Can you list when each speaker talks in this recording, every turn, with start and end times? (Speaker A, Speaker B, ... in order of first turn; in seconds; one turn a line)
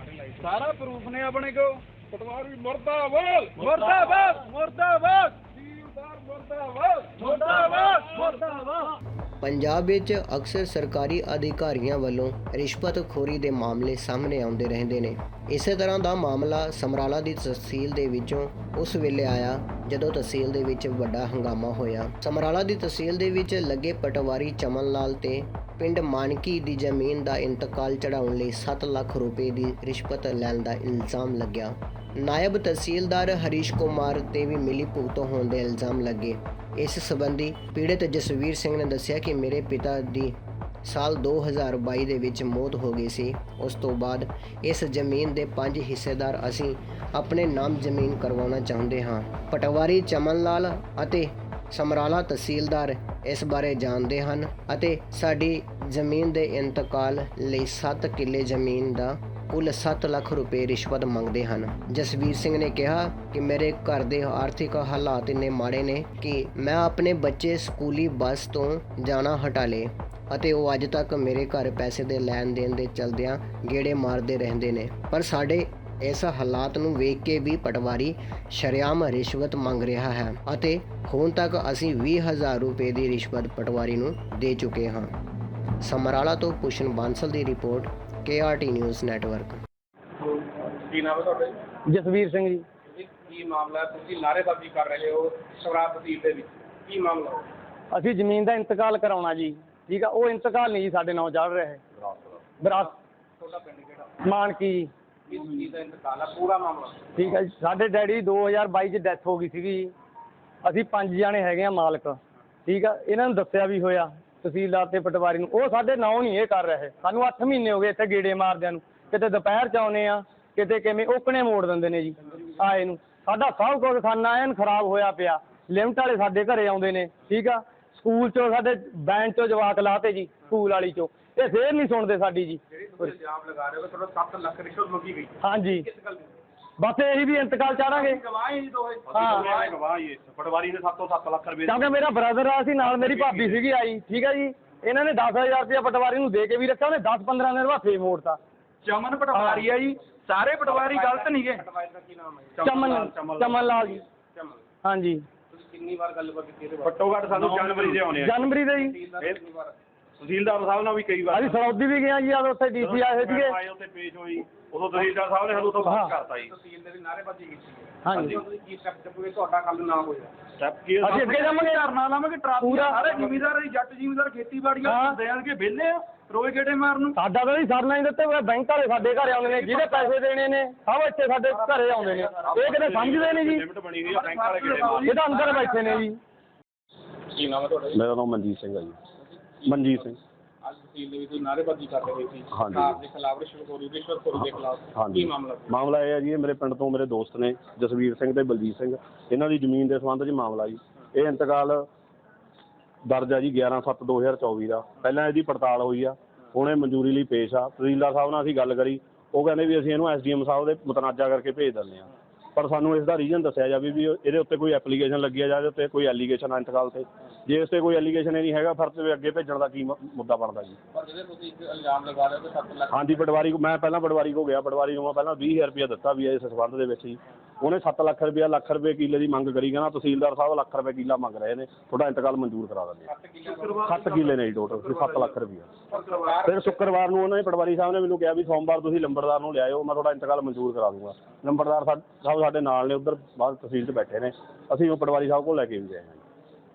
Speaker A: 0.4-8.8
Speaker B: 3.7-4.1
Speaker B: 7.3-8.2
Speaker C: 9.4-85.1
Speaker C: 85.8-89.6
Speaker D: 90.2-91.6
Speaker B: 91.9-92.7
Speaker D: 92.9-97.5
Speaker B: 97.9-101.8
Speaker B: 102.6-102.9
Speaker D: 102.7-104.2
Speaker B: 104.2-104.9
Speaker D: 105.3-107.4
Speaker B: 107.2-109.9
Speaker B: 110.6-132.6
Speaker D: 132.7-136.3
Speaker B: 135.4-135.9
Speaker B: 136.8-138.2
Speaker D: 137.8-139.8
Speaker E: 139.1-142.0
Speaker B: 139.1-139.5
Speaker B: 141.7-148.4
Speaker E: 142.8-143.6
Speaker A: 148.8-151.7
Speaker B: 149.3-149.7
Speaker D: 150.6-154.7
Speaker B: 152.6-154.0
Speaker E: 152.7-153.7
Speaker B: 154.8-155.3
Speaker D: 155.5-157.0
Speaker E: 156.8-158.4
Speaker A: 157.4-158.0
Speaker D: 157.9-159.8
Speaker B: 158.1-159.0
Speaker E: 160.2-161.7
Speaker B: 161.3-163.6
Speaker E: 162.8-166.5
Speaker D: 165.5-170.3
Speaker B: 165.8-166.2
Speaker B: 168.1-168.4
Speaker E: 170.6-171.4
Speaker B: 171.0-171.9
Speaker A: 171.2-177.2
Speaker B: 172.6-173.2
Speaker B: 174.8-175.2
Speaker B: 177.1-183.6
Speaker A: 179.5-180.1
Speaker E: 182.5-185.2
Speaker A: 184.1-186.0
Speaker B: 185.0-186.2
Speaker D: 187.3-188.0
Speaker E: 187.9-189.0
Speaker D: 189.6-195.8
Speaker E: 189.7-190.2
Speaker E: 192.5-193.0
Speaker E: 194.4-201.9
Speaker E: 203.1-220.8
Speaker D: 220.9-223.3
Speaker E: 222.9-233.1
Speaker D: 233.1-235.3
Speaker E: 233.6-235.7
Speaker D: 235.9-236.8
Speaker A: 236.0-236.2
Speaker E: 236.4-246.2